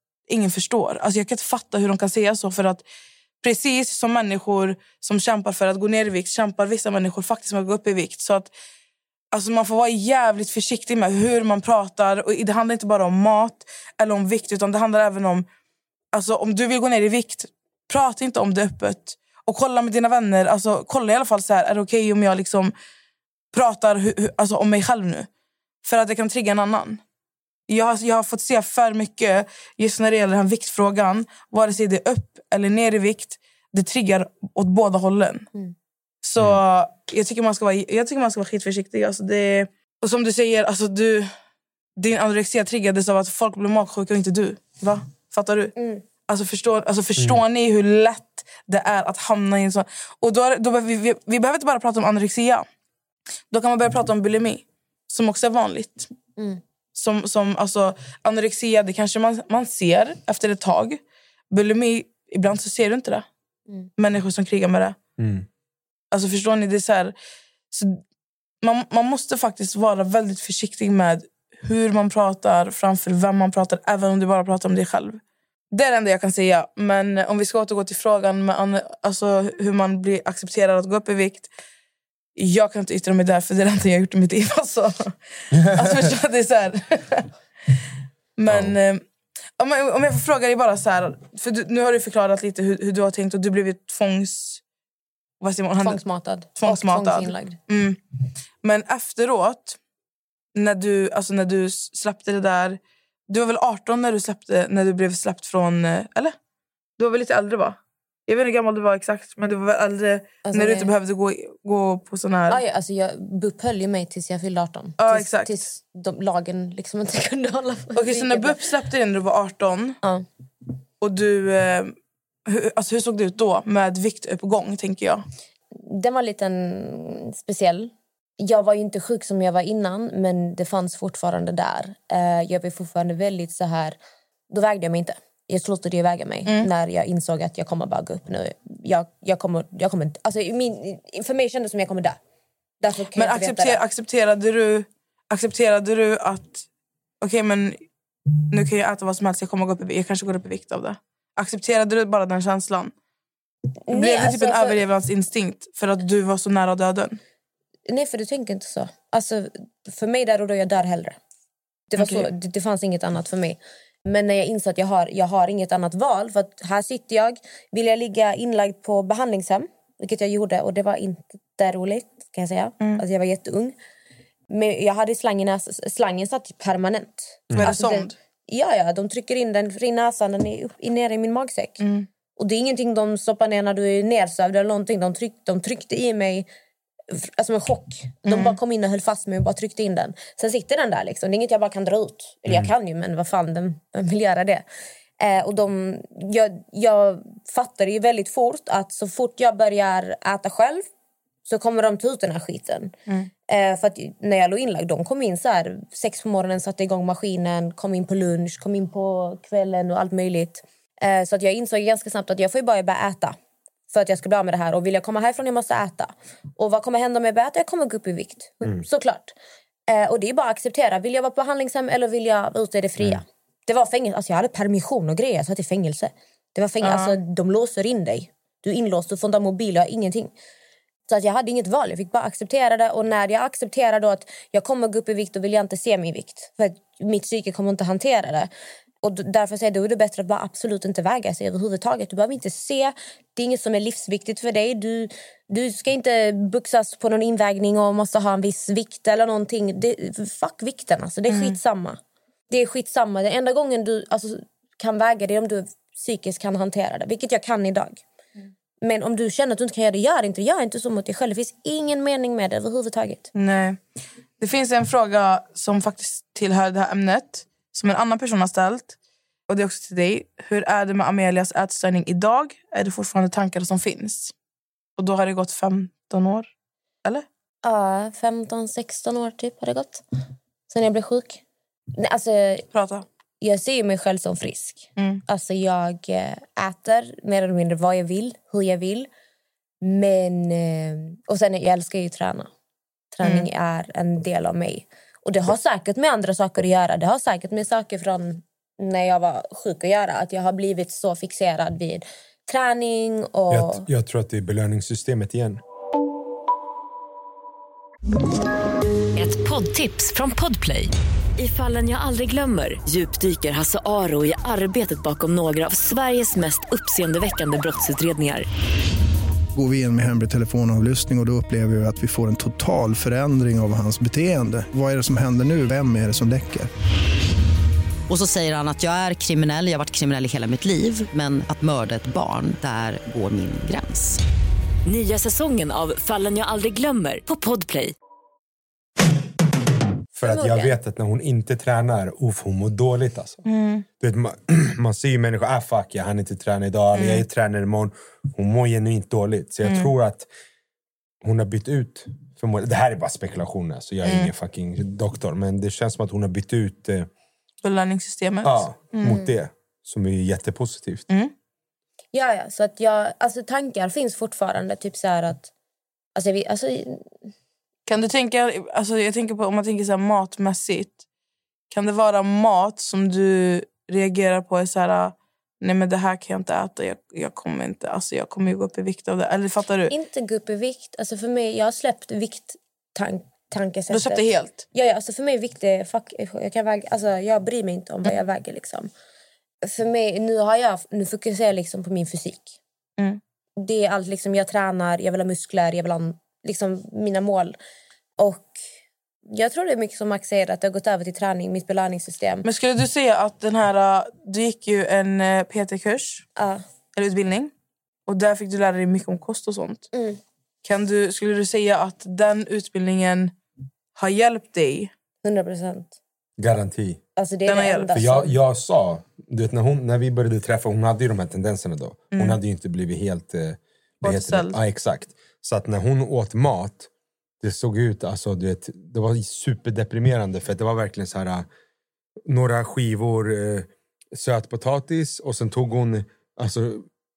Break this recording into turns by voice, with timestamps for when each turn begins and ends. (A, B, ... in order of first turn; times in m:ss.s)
0:00.3-0:02.8 A
0:03.4-0:08.5 A
0:09.3-0:15.5 A
0:16.1-0:22.7 A
0:23.5-0:25.3 A
0:25.8-0:27.0 A
0:27.7-0:35.5 A
0:36.2-0:41.3 A
0:42.0-0:45.8 A
0:45.8-0:46.0 B
0:46.3-0:52.7 A
0:53.5-0:56.1 A
0:57.0-1:01.0 A
1:01.5-1:03.3 A
1:04.0-1:05.0 A
1:05.2-1:05.5 C
1:06.1-1:07.1 A
1:07.7-1:08.0 A
1:08.6-1:15.2 A
1:15.7-1:21.5 A
1:22.4-1:27.3 A
1:28.4-1:29.0 A
1:28.5-1:28.8 C
1:29.6-1:34.6 A
1:35.4-1:36.0 A
1:35.8-1:37.6 B
1:36.6-1:38.0 A
1:38.6-1:39.8 A
1:40.6-1:46.4 A
1:47.0-1:52.6 A
1:50.5-1:50.9 B
1:52.5-1:58.6 B
1:55.0-1:55.6 A
1:58.0-2:00.0 A
2:01.0-2:01.9 A
2:02.5-2:05.2 A
2:05.8-2:14.0 B
2:14.5-2:22.2 B
2:22.8-2:23.8 B
2:23.2-2:26.6 A
2:27.2-2:27.8 A
2:28.5-2:32.9 A
2:33.9-2:34.8 B
2:33.9-2:37.2 A
2:37.9-2:41.2 B
2:41.9-2:53.8 B
2:42.0-2:42.3 A
2:54.5-3:01.8 B
2:57.5-2:57.8 C
2:57.6-2:58.2 A
3:01.8-3:02.1 A
3:02.4-3:06.5 B
3:07.1-3:14.6 B
3:08.2-3:08.6 A
3:15.2-3:20.8 B
3:21.5-3:22.9 B
3:23.5-3:33.4 B
3:33.9-3:39.3 B
3:39.9-3:50.3 B
3:46.8-3:47.2 A
3:51.1-3:58.5 B
3:59.0-4:12.0 B
4:11.3-4:11.6 A
4:12.5-4:18.0 B
4:18.8-4:23.3 B
4:23.4-4:23.8 A
4:24.4-4:29.0 A
4:29.5-4:34.3 A
4:35.0-4:36.5 A
4:37.6-4:40.0 B
4:40.7-4:41.4 B
4:42.0-4:42.7 B
4:42.7-4:43.0 A
4:43.4-4:49.1 B
4:45.0-4:45.2 A
4:49.8-4:52.5 B
4:53.1-5:03.9 B
5:03.5-5:05.6 C
5:09.2-5:18.5 D
5:19.6-5:26.7 E
5:28.1-5:34.2 F
5:34.9-5:37.9 D
5:40.2-5:43.4 C
5:40.2-5:40.7 B
5:43.5-5:43.8 A
5:44.0-5:50.3 C
5:47.0-5:47.2 A
5:49.6-5:49.9 A
5:51.2-5:57.1 C
5:54.0-5:54.3 A
5:57.6-5:59.2 A
5:58.4-6:01.1 C
6:02.1-6:05.5 B
6:06.2-6:07.0 B
6:07.9-6:11.0 A
6:11.7-6:19.9 A
6:19.9-6:28.9 B
6:23.9-6:24.6 A
6:29.6-6:32.6 B
6:33.6-6:37.6 B
6:38.2-6:38.6 B
6:39.3-6:42.5 B
6:42.4-6:46.3 A
6:46.4-6:46.6 B
6:47.0-6:47.5 A
6:48.1-6:49.9 A
6:49.9-6:50.2 B
6:50.6-6:53.3 A
6:54.0-6:54.9 A
6:55.2-6:56.0 B
6:56.4-6:57.0 C
6:57.2-6:58.4 B
6:57.5-6:57.9 A
6:57.9-7:06.9 C
7:02.1-7:02.4 A
7:04.0-7:04.6 A
7:07.4-7:11.5 C
7:12.3-7:16.9 C